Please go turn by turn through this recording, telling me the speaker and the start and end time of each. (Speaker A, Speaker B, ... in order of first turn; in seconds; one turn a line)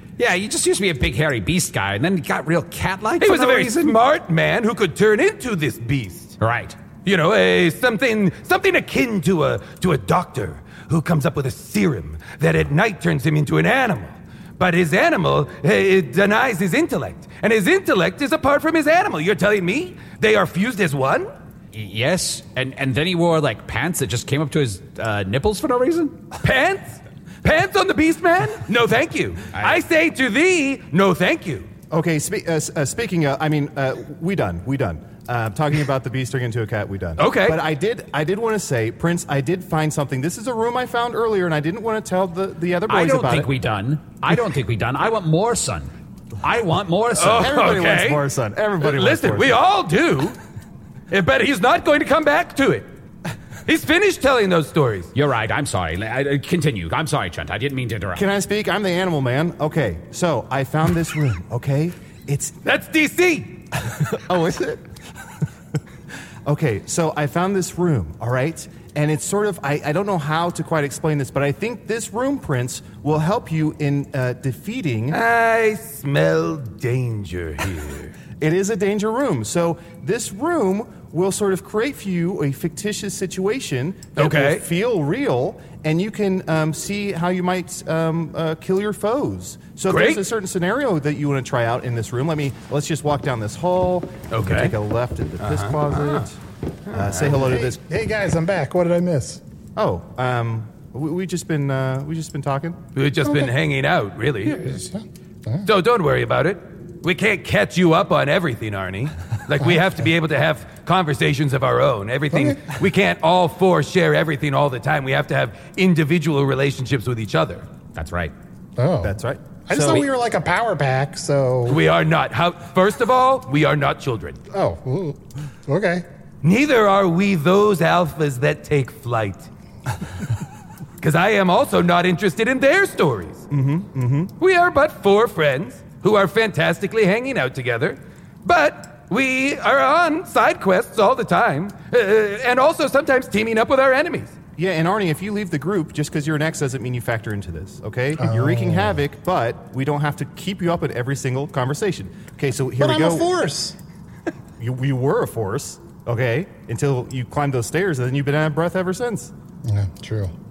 Speaker A: 0.2-4.0
Speaker B: 3.2-6.4
Speaker A: 6.4-6.8
Speaker B: 7.0-21.3
Speaker A: 21.7-26.2
Speaker B: 26.4-31.7
Speaker A: 29.5-29.8
Speaker C: 31.9-43.5
Speaker B: 37.2-37.6
Speaker A: 42.9-47.7
Speaker B: 47.1-48.2
Speaker C: 47.2-49.6
Speaker B: 48.8-50.4
Speaker B: 51.1-52.9
Speaker B: 53.7-55.1
Speaker A: 55.1-58.2
Speaker C: 58.1-62.6
Speaker B: 62.6-63.6
Speaker C: 63.8-64.8
Speaker C: 66.5-75.2
Speaker B: 75.1-78.1
Speaker C: 78.4-96.4
Speaker B: 84.2-84.6
Speaker B: 89.9-90.2
Speaker B: 94.3-94.8
Speaker B: 95.4-96.2
Speaker B: 96.9-97.3
Speaker C: 96.9-97.8
Speaker D: 97.2-99.4
Speaker C: 99.8-102.8
Speaker B: 102.9-104.9
Speaker D: 103.2-103.5
Speaker D: 104.5-105.7
Speaker B: 105.6-117.7
Speaker A: 117.9-118.3
Speaker D: 118.8-119.1
Speaker C: 119.0-120.1
Speaker D: 119.7-121.8
Speaker B: 121.7-124.4
Speaker D: 124.5-126.0
Speaker B: 126.4-129.5
Speaker B: 131.0-133.4
Speaker C: 133.5-134.3
Speaker B: 134.4-144.4
Speaker C: 144.6-153.3
Speaker D: 148.2-149.0
Speaker D: 152.8-153.8
Speaker C: 154.6-159.3
Speaker D: 159.6-160.3